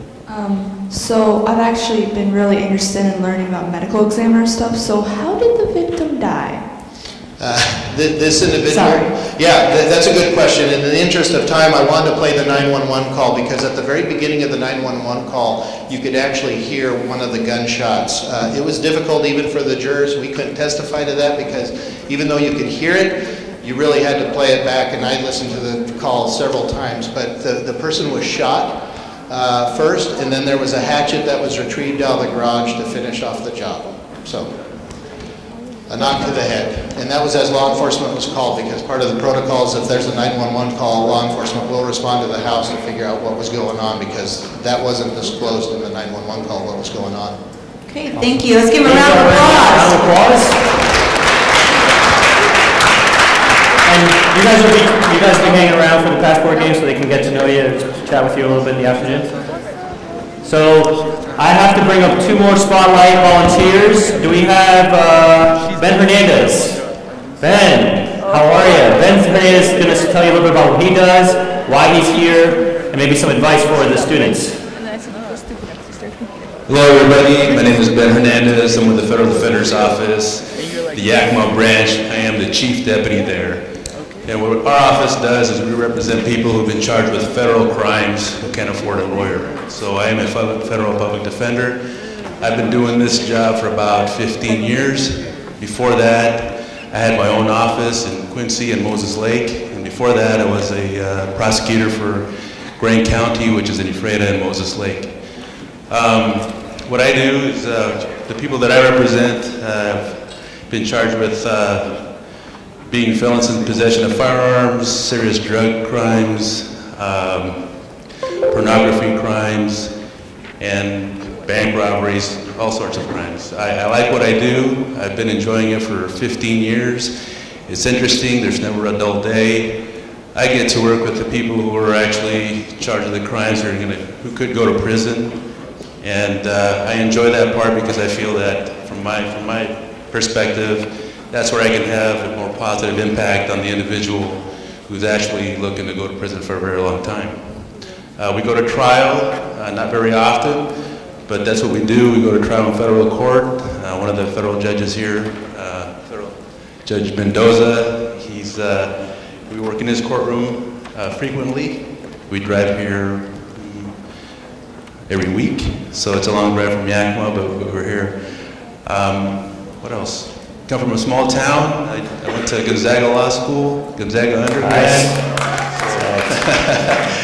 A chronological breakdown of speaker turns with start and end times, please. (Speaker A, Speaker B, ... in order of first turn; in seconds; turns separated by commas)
Speaker A: 0.3-6.6, Speaker B: 7.4-34.5, Speaker A: 8.7-9.1, Speaker B: 35.9-47.4, Speaker C: 47.9-50.0, Speaker D: 48.1-50.6, Speaker D: 53.9-59.3, Speaker D: 60.4-66.8, Speaker D: 67.4-74.6, Speaker E: 76.7-91.8, Speaker E: 92.4-112.3, Speaker E: 112.8-118.0, Speaker E: 118.5-120.0, Speaker E: 120.6-164.1, Speaker E: 165.1-177.1, Speaker D: 174.6-176.4